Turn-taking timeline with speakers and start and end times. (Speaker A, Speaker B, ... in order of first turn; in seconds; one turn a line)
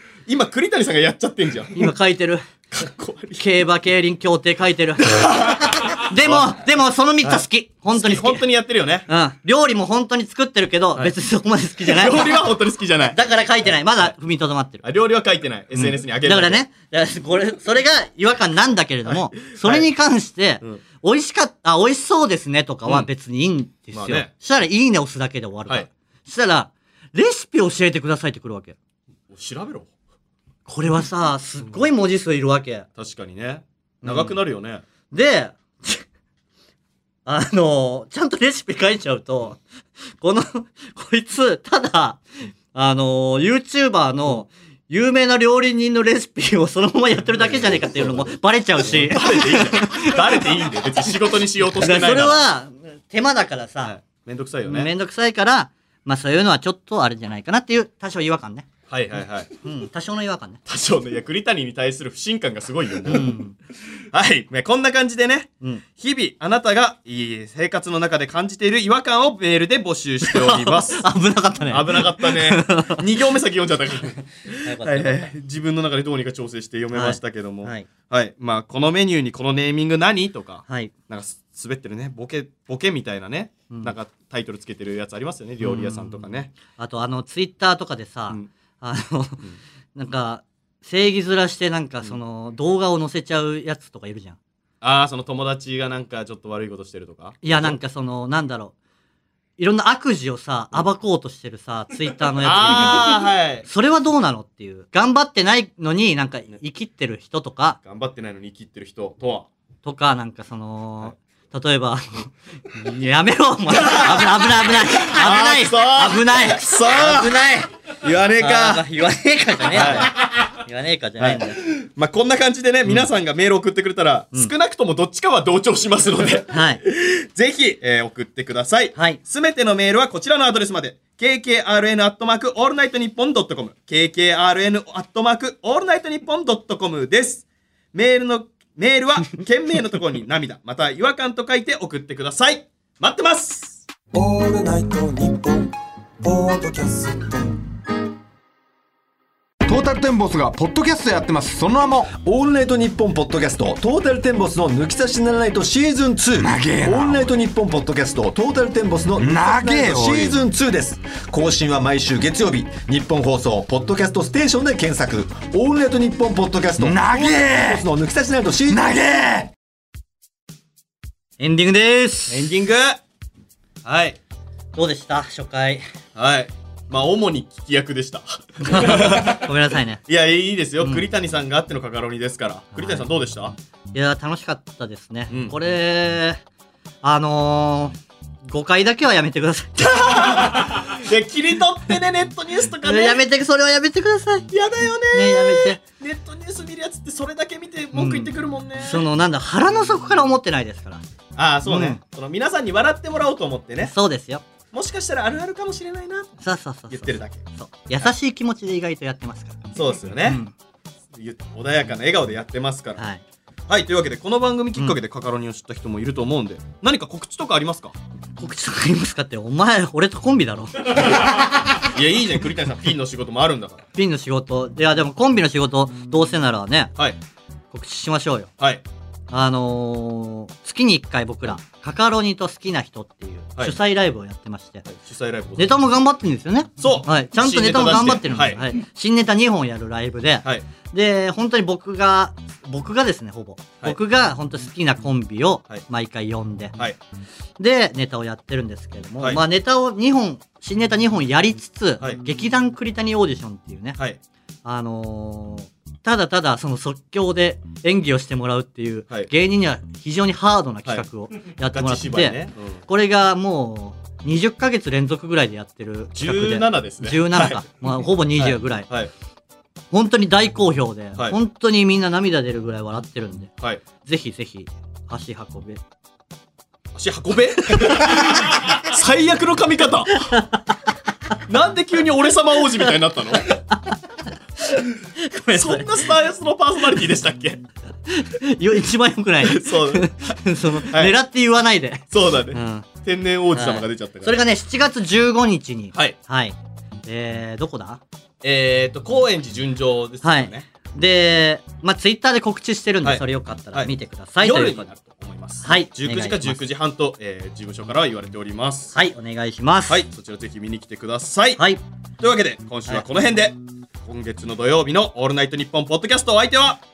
Speaker A: 0.3-1.9
Speaker B: 1.8-2.4
Speaker A: 2.7-3.4
Speaker B: 3.4-8.4
Speaker A: 5.1-6.5
Speaker A: 7.9-9.1
Speaker B: 9.1-12.4
Speaker A: 11.8-14.1
Speaker B: 13.1-14.8
Speaker A: 14.8-16.6
Speaker B: 15.7-28.8
Speaker A: 19.1-19.9
Speaker A: 23.9-24.3
Speaker A: 29.3-29.9
Speaker B: 30.7-32.9
Speaker A: 33.0-34.8
Speaker B: 34.0-34.4
Speaker B: 35.1-36.0
Speaker B: 37.2-39.6
Speaker B: 40.2-42.2
Speaker B: 42.7-50.5
Speaker A: 47.5-48.2
Speaker A: 48.8-52.4
Speaker B: 51.7-54.0
Speaker A: 53.8-54.9
Speaker B: 54.6-58.7
Speaker A: 58.9-59.5
Speaker B: 59.6-60.6
Speaker A: 60.7-63.3
Speaker B: 63.0-63.5
Speaker A: 64.1-71.0
Speaker B: 70.2-73.0
Speaker A: 71.7-86.5
Speaker B: 74.6-75.3
Speaker B: 76.9-77.9
Speaker B: 83.7-83.9
Speaker B: 85.6-94.4
Speaker A: 94.8-97.8
Speaker B: 97.4-98.7
Speaker B: 99.6-107.8
Speaker A: 102.4-103.7
Speaker A: 107.8-109.5
Speaker B: 109.8-117.7
Speaker A: 113.7-118.8
Speaker B: 118.4-121.6
Speaker A: 119.7-120.1
Speaker A: 121.2-143.8
Speaker B: 126.5-126.8
Speaker B: 128.9-129.2
Speaker C: 144.1-147.6
Speaker D: 149.6-152.1
Speaker E: 152.1-168.9
Speaker D: 156.4-157.3
Speaker D: 159.2-160.4
Speaker D: 166.8-167.8
Speaker D: 168.7-169.5
Speaker B: 171.4-172.4
Speaker A: 172.3-173.0
Speaker A: 173.8-174.2
Speaker B: 174.7-175.8
Speaker A: 176.1-179.5
Speaker B: 178.6-180.0
Speaker A: 180.1-183.5
Speaker B: 182.7-183.0
Speaker B: 183.9-186.4
Speaker A: 185.3-185.6
Speaker B: 187.0-190.7
Speaker A: 189.8-193.2
Speaker B: 192.8-194.5
Speaker A: 194.5-199.0
Speaker B: 195.1-195.8
Speaker B: 197.9-201.0
Speaker A: 201.3-203.9
Speaker B: 201.7-202.0
Speaker B: 203.8-204.4
Speaker A: 204.7-206.3
Speaker B: 206.4-209.6
Speaker A: 206.9-207.4
Speaker A: 209.7-210.4
Speaker B: 210.2-210.5
Speaker A: 211.1-213.0
Speaker B: 213.0-213.2
Speaker A: 213.7-217.9
Speaker B: 218.4-221.4
Speaker A: 221.8-223.8
Speaker B: 223.9-226.9
Speaker B: 227.7-228.5
Speaker B: 229.3-234.8
Speaker A: 234.8-235.8
Speaker B: 235.6-246.8
Speaker A: 236.8-238.6
Speaker B: 247.6-254.0
Speaker B: 254.6-268.9
Speaker A: 261.7-262.8
Speaker A: 266.1-267.6
Speaker A: 268.4-269.1
Speaker B: 269.9-273.5
Speaker B: 274.0-275.8
Speaker A: 276.9-280.1
Speaker B: 280.3-280.6
Speaker A: 281.5-283.4
Speaker B: 283.5-284.0
Speaker B: 285.1-285.9
Speaker A: 285.5-287.6
Speaker B: 288.1-292.9
Speaker A: 289.4-290.1
Speaker A: 290.8-291.1
Speaker A: 292.1-294.4
Speaker B: 293.5-298.0
Speaker A: 298.4-300.7
Speaker B: 300.2-304.9
Speaker A: 303.0-308.9
Speaker B: 305.6-306.6
Speaker B: 308.9-310.0
Speaker A: 309.9-311.6
Speaker A: 312.2-316.8